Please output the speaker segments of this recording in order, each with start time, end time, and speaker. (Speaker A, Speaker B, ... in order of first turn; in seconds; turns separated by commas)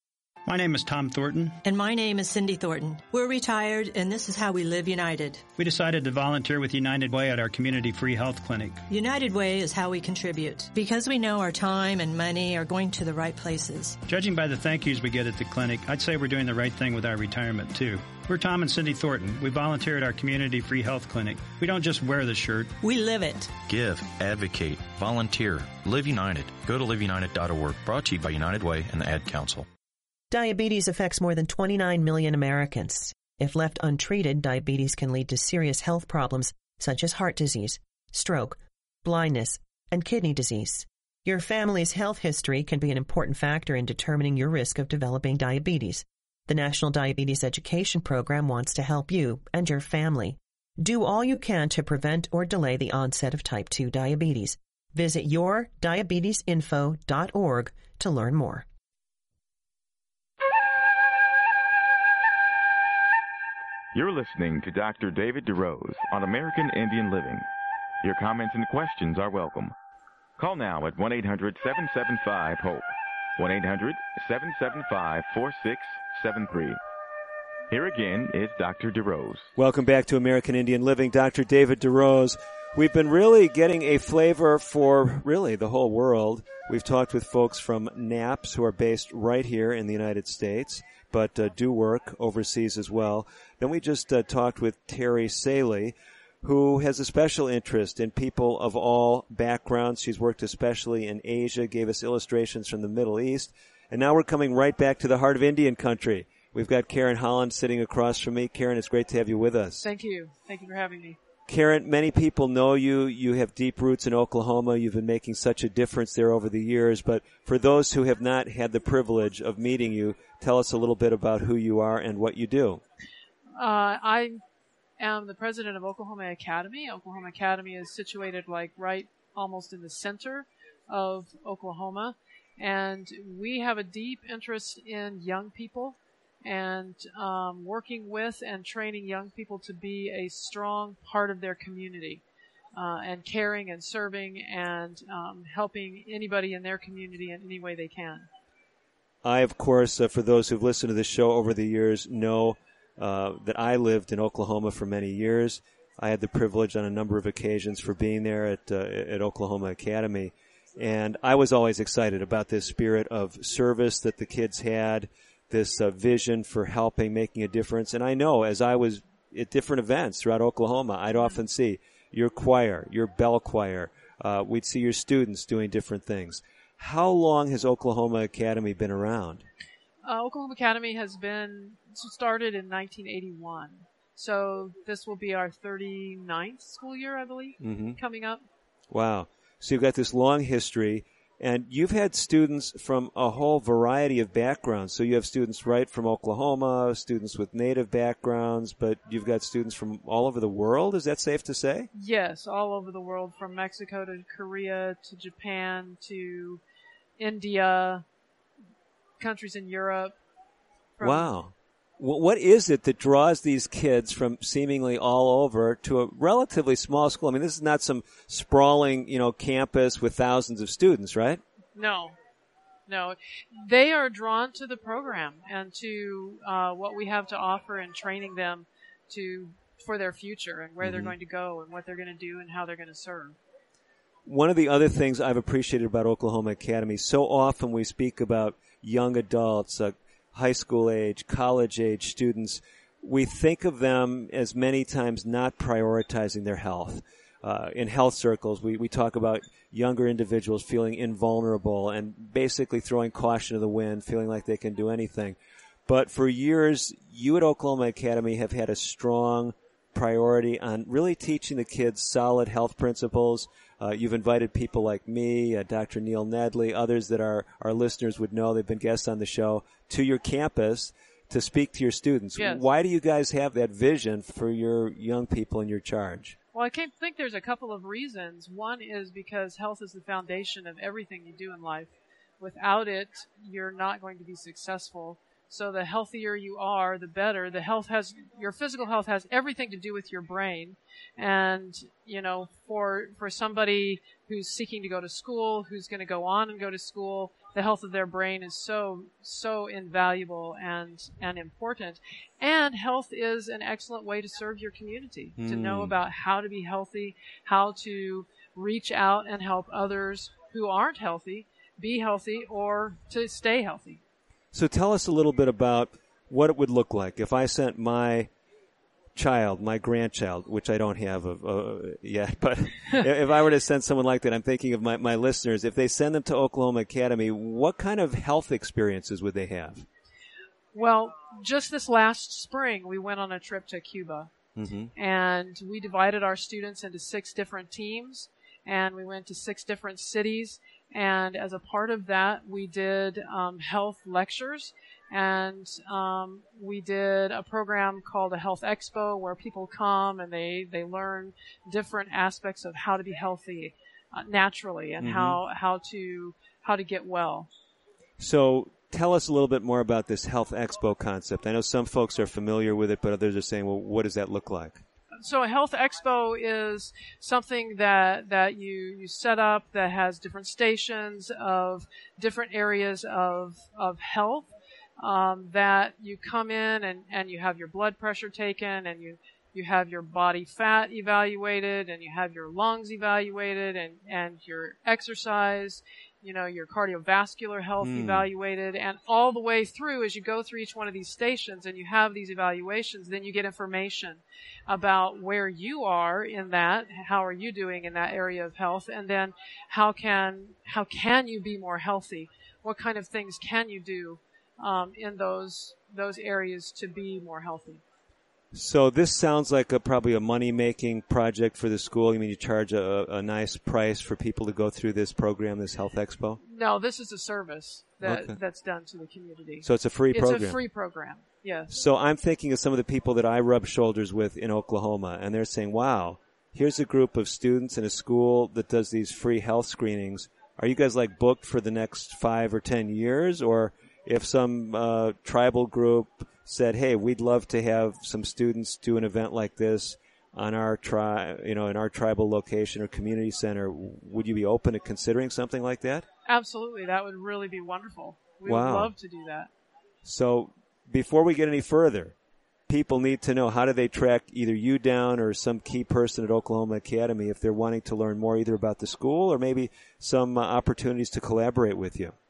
Speaker A: 0.4-1.6, Speaker B: 1.6-5.5, Speaker A: 5.5-8.8, Speaker B: 8.9-13.9, Speaker A: 14.1-22.7, Speaker B: 22.8-23.5, Speaker C: 23.6-29.7, Speaker D: 30.3-58.6, Speaker E: 63.9-67.5, Speaker E: 68.0-69.7, Speaker E: 70.4-76.8, Speaker E: 77.7-79.5, Speaker F: 79.5-109.9, Speaker G: 109.8-111.2, Speaker F: 111.5-122.8, Speaker G: 123.6-124.4, Speaker G: 125.0-142.2, Speaker G: 142.7-148.3, Speaker F: 149.2-179.4, Speaker G: 171.2-171.4, Speaker G: 180.0-188.4, Speaker F: 187.6-188.0, Speaker F: 188.9-201.9, Speaker G: 201.9-206.6, Speaker G: 207.2-208.0, Speaker G: 209.2-210.2, Speaker G: 211.0-211.3, Speaker F: 211.0-221.4, Speaker G: 221.7-222.2, Speaker G: 222.9-233.4, Speaker F: 230.8-231.2, Speaker F: 234.2-276.4, Speaker G: 272.4-272.7, Speaker G: 276.5-314.0, Speaker F: 305.4-306.0, Speaker F: 314.5-318.3, Speaker F: 319.1-329.9, Speaker G: 330.7-334.3, Speaker F: 334.6-334.9, Speaker G: 334.9-357.5, Speaker F: 355.0-355.4, Speaker F: 358.2-364.8, Speaker G: 365.2-407.8, Speaker F: 387.8-388.3, Speaker F: 408.5-416.4, Speaker G: 416.4-421.8, Speaker F: 418.0-418.4, Speaker F: 419.6-420.6, Speaker F: 421.7-446.1, Speaker G: 446.2-449.5, Speaker F: 448.4-448.9, Speaker F: 450.0-452.1, Speaker F: 452.7-462.1